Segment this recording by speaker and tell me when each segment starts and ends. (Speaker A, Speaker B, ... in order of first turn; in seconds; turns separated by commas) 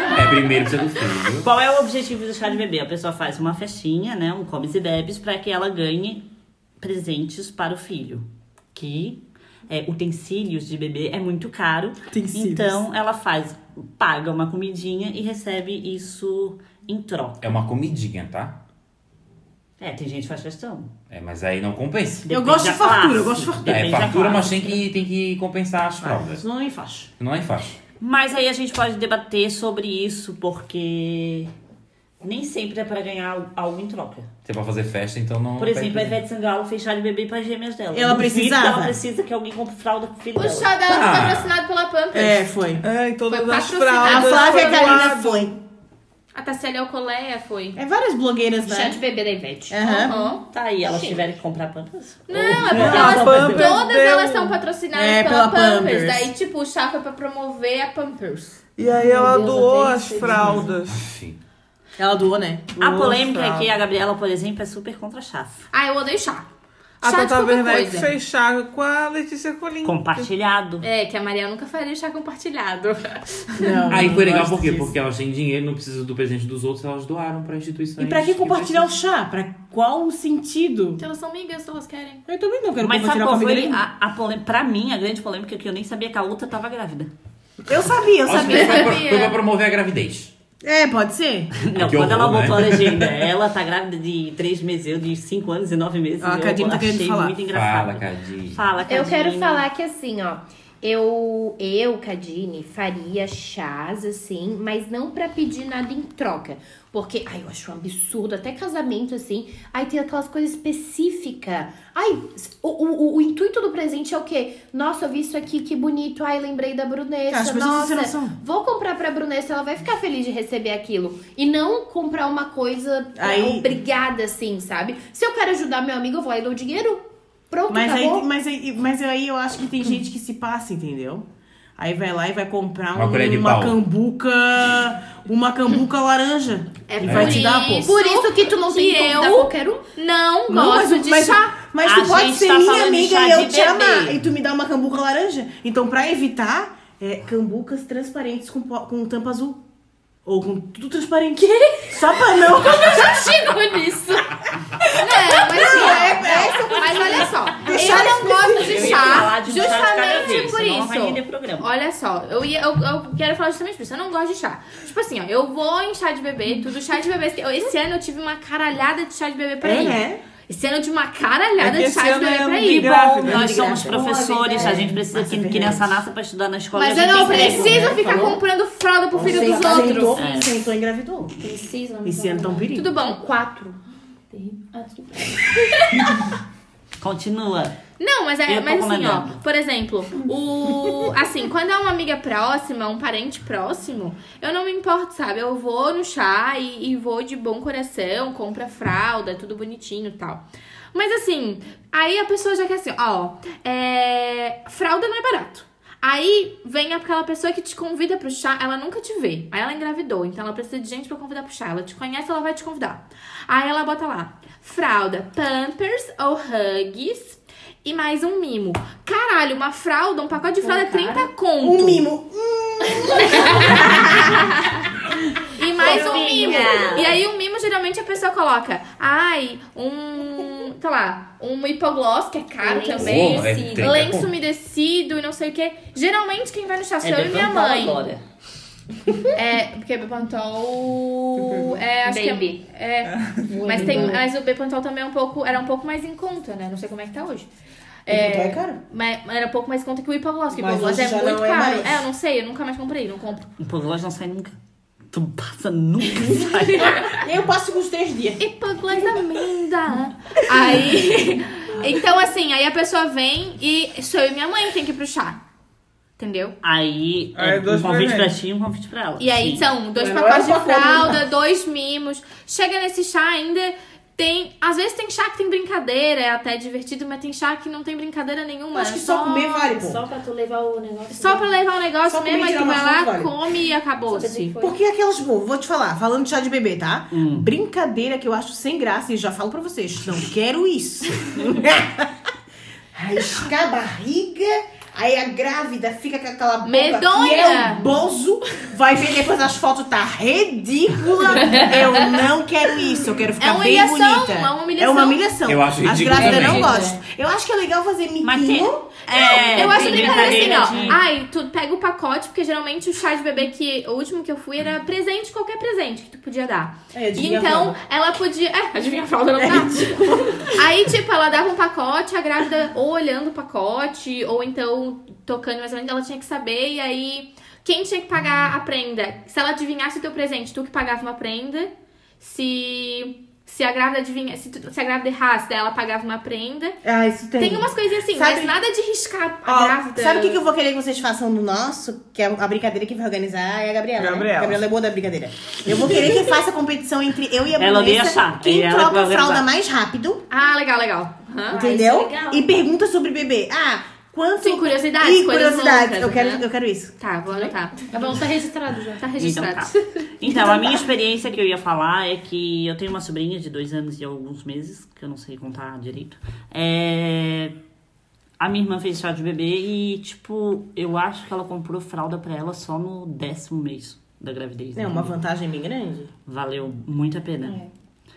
Speaker A: 0.1-1.5, Speaker B: 1.4-6.2, Speaker B: 6.8-17.4, Speaker C: 12.1-12.8, Speaker A: 17.4-18.6, Speaker B: 19.8-20.9, Speaker A: 21.1-22.2, Speaker B: 22.2-24.8, Speaker C: 22.3-24.0, Speaker A: 23.7-26.4, Speaker C: 26.0-27.1, Speaker A: 27.2-27.7, Speaker B: 28.0-31.5, Speaker B: 32.2-34.3, Speaker A: 34.5-36.2, Speaker B: 35.6-41.3, Speaker C: 37.9-39.0, Speaker D: 40.4-42.5, Speaker A: 40.9-41.5, Speaker C: 42.1-42.8, Speaker E: 42.8-45.5, Speaker D: 43.2-45.1, Speaker C: 44.0-45.6, Speaker D: 46.3-47.8, Speaker C: 47.7-49.0, Speaker F: 48.6-50.2, Speaker C: 49.7-50.1, Speaker D: 49.8-50.4, Speaker B: 50.5-53.7, Speaker D: 52.3-58.6, Speaker C: 52.7-53.3, Speaker E: 52.9-54.6, Speaker C: 54.9-56.3, Speaker E: 58.8-61.0, Speaker G: 58.9-60.7, Speaker A: 60.9-61.4, Speaker C: 62.0-62.8, Speaker E: 62.8-63.7, Speaker B: 62.8-65.7, Speaker D: 65.7-66.5, Speaker E: 67.0-70.3, Speaker D: 67.0-68.1, Speaker B: 69.8-70.9, Speaker D: 70.8-73.9, Speaker C: 73.6-74.9, Speaker A: 73.9-78.9, Speaker C: 78.0-81.0, Speaker D: 81.0-82.2, Speaker C: 82.3-83.8, Speaker B: 82.8-87.1, Speaker C: 87.7-89.0, Speaker A: 88.2-90.3, Speaker D: 88.4-89.4, Speaker C: 90.6-91.5, Speaker B: 91.6-99.7, Speaker A: 91.7-93.3, Speaker C: 96.2-97.4, Speaker A: 97.5-98.6, Speaker F: 98.8-128.2, Speaker C: 117.3-118.4, Speaker C: 123.2-123.7, Speaker C: 127.7-131.3, Speaker C: 131.8-137.9, Speaker A: 132.9-133.8, Speaker F: 136.9-139.8, Speaker A: 137.0-137.4, Speaker D: 137.0-141.6, Speaker C: 140.5-149.6, Speaker B: 141.8-144.2, Speaker C: 150.2-153.3, Speaker D: 152.6-153.9, Speaker D: 154.9-172.9, Speaker C: 155.0-159.1, Speaker B: 157.8-161.7, Speaker C: 169.6-170.2, Speaker E: 171.6-173.5, Speaker B: 172.6-178.0, Speaker C: 173.2-174.0, Speaker G: 173.9-174.9, Speaker F: 173.9-174.6, Speaker C: 174.5-176.0, Speaker D: 176.8-180.2, Speaker C: 176.9-178.4, Speaker F: 177.7-178.2, Speaker C: 179.1-181.4, Speaker G: 179.2-180.0, Speaker B: 180.1-180.6, Speaker G: 181.4-182.7, Speaker C: 182.0-182.9, Speaker D: 182.7-183.2, Speaker F: 183.0-183.8, Speaker G: 184.3-185.6, Speaker D: 185.6-186.2, Speaker B: 187.0-187.8, Speaker D: 188.0-222.1, Speaker B: 188.5-189.4, Speaker G: 220.6-221.2, Speaker F: 220.7-221.1, Speaker C: 221.6-224.3, Speaker D: 223.3-224.8, Speaker D: 225.5-238.1, Speaker F: 225.7-227.2, Speaker G: 226.2-226.9, Speaker B: 226.5-226.9, Speaker G: 232.6-234.0, Speaker A: 232.9-234.3, Speaker B: 237.0-238.2, Speaker D: 239.3-247.5, Speaker G: 242.1-242.6, Speaker G: 243.5-244.2, Speaker F: 243.5-244.2, Speaker D: 248.1-253.5, Speaker C: 248.1-248.8, Speaker C: 250.5-252.1, Speaker B: 253.6-254.6, Speaker B: 255.1-257.2, Speaker D: 256.7-257.1, Speaker C: 257.1-258.4, Speaker D: 258.4-265.4, Speaker D: 266.2-266.6, Speaker B: 266.6-269.7, Speaker E: 267.4-268.3, Speaker D: 269.2-279.5, Speaker C: 269.9-271.2, Speaker C: 278.7-280.0, Speaker G: 279.6-281.5, Speaker D: 281.1-284.6, Speaker C: 282.0-283.4, Speaker G: 284.1-284.7, Speaker C: 284.6-292.1, Speaker B: 287.1-287.5, Speaker C: 292.9-308.8, Speaker D: 296.6-297.8, Speaker D: 301.4-301.9, Speaker D: 303.4-305.4, Speaker A: 305.4-306.9, Speaker F: 306.1-306.9, Speaker B: 308.2-311.0, Speaker D: 309.1-336.8, Speaker C: 316.9-317.8, Speaker C: 319.4-320.6, Speaker C: 336.8-338.6, Speaker D: 337.4-340.4, Speaker C: 339.4-350.2, Speaker E: 344.0-344.6, Speaker B: 347.6-349.5, Speaker D: 350.3-351.6, Speaker C: 351.5-356.9, Speaker F: 351.6-352.4, Speaker D: 354.4-356.5, Speaker D: 357.0-357.9, Speaker F: 357.4-359.0, Speaker D: 359.0-359.8, Speaker B: 359.2-367.6, Speaker B: 368.4-375.2, Speaker C: 374.7-376.1, Speaker B: 376.3-377.6